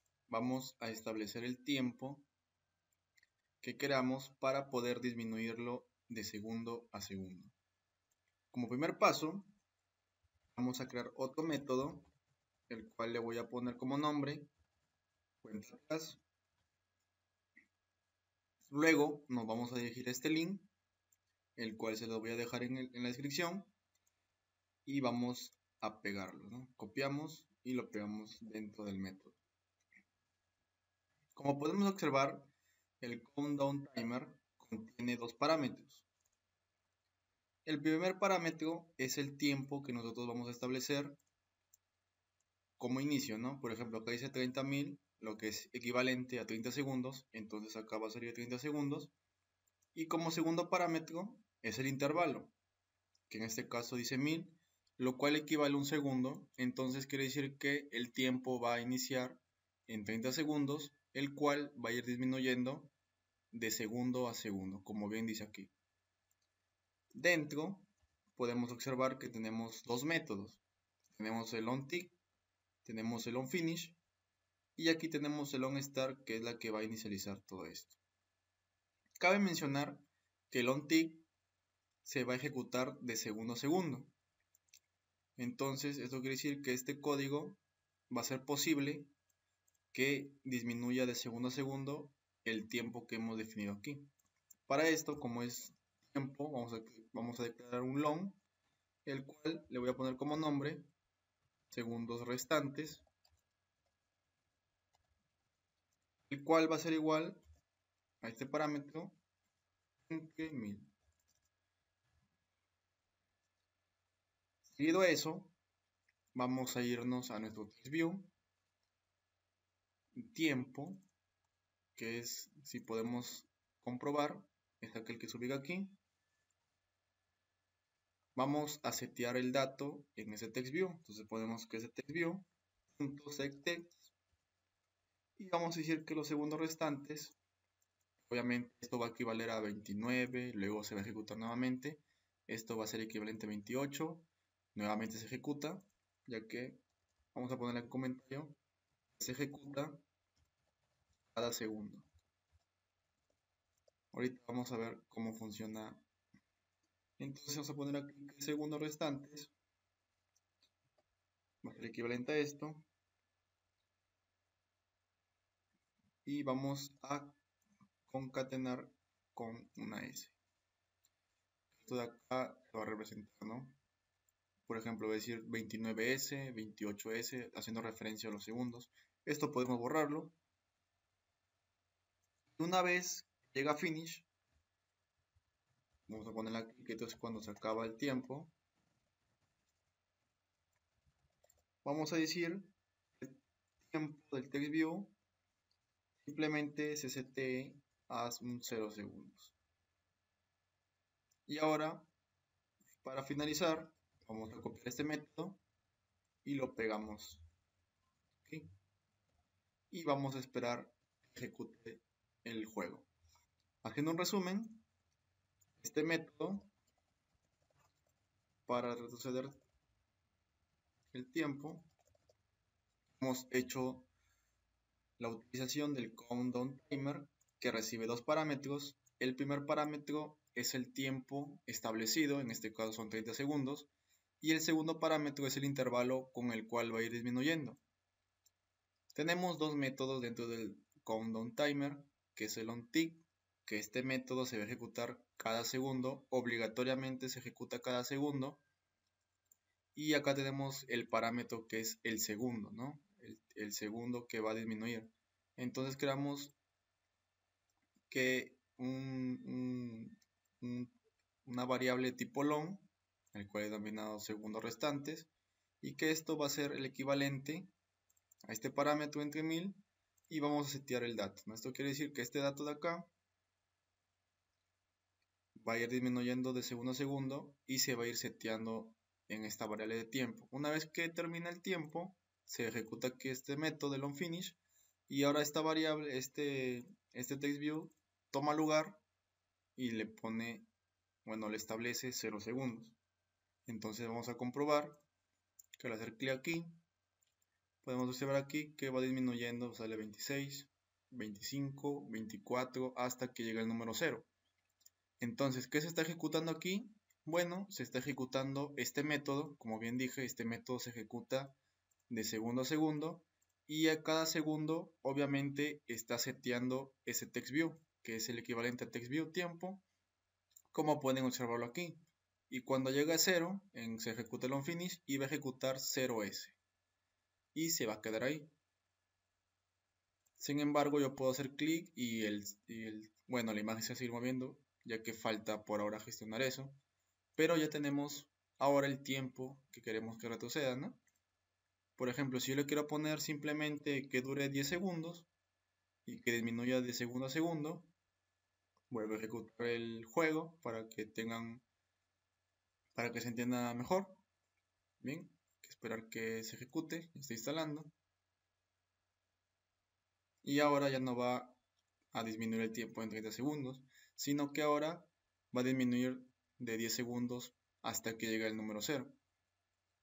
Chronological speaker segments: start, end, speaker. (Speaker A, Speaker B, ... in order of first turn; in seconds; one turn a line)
Speaker A: 0.3-2.3
Speaker A: 3.6-7.5
Speaker A: 8.5-9.5
Speaker A: 10.5-12.1
Speaker A: 12.7-14.5
Speaker A: 15.4-16.2
Speaker A: 18.7-20.7
Speaker A: 21.6-23.7
Speaker A: 24.9-29.4
Speaker A: 31.4-32.5
Speaker A: 33.0-36.1
Speaker A: 37.7-41.2
Speaker A: 42.8-49.1
Speaker A: 49.9-52.5
Speaker A: 53.3-62.9
Speaker A: 63.5-65.7
Speaker A: 67.1-72.2
Speaker A: 72.8-74.0
Speaker A: 74.8-78.0
Speaker A: 79.2-81.3
Speaker A: 82.0-84.1
Speaker A: 85.4-89.1
Speaker A: 89.9-94.1
Speaker A: 94.7-98.4
Speaker A: 99.0-100.9
Speaker A: 101.7-103.0
Speaker A: 106.3-107.4
Speaker A: 108.2-109.2
Speaker A: 110.1-110.9
Speaker A: 114.7-115.5
Speaker A: 116.3-118.3
Speaker A: 120.2-121.0
Speaker A: 122.0-126.0
Speaker A: 128.3-134.1
Speaker A: 135.4-137.4
Speaker A: 138.2-146.8
Speaker A: 147.3-148.6
Speaker A: 149.2-150.0
Speaker A: 151.3-152.1
Speaker A: 154.1-156.0
Speaker A: 157.2-159.5
Speaker A: 161.6-162.8
Speaker A: 166.2-167.4
Speaker A: 168.1-170.4
Speaker A: 171.7-173.8
Speaker A: 174.7-180.4
Speaker A: 182.6-184.3
Speaker A: 186.1-188.5
Speaker A: 191.8-195.1
Speaker A: 196.2-199.6
Speaker A: 201.5-202.1
Speaker A: 203.0-205.6
Speaker A: 206.4-207.4
Speaker A: 208.4-208.7
Speaker A: 209.9-213.1
Speaker A: 213.8-214.8
Speaker A: 215.8-216.7
Speaker A: 218.7-219.6
Speaker A: 221.1-221.9
Speaker A: 223.2-224.1
Speaker A: 225.2-237.8
Speaker A: 239.1-248.6
Speaker A: 249.9-256.6
Speaker A: 258.1-265.3
Speaker A: 265.8-267.7
Speaker A: 268.4-273.1
Speaker A: 275.6-289.0
Speaker A: 289.8-290.7
Speaker A: 291.2-293.0
Speaker A: 293.7-295.0
Speaker A: 295.8-296.8
Speaker A: 297.8-304.3
Speaker A: 305.2-311.6
Speaker A: 312.1-319.8
Speaker A: 320.7-326.6
Speaker A: 327.5-328.5
Speaker A: 330.4-336.8
Speaker A: 337.4-341.0
Speaker A: 342.0-345.3
Speaker A: 346.1-347.9
Speaker A: 348.9-351.6
Speaker A: 352.9-354.2
Speaker A: 355.0-357.9
Speaker A: 360.4-361.6
Speaker A: 362.1-369.2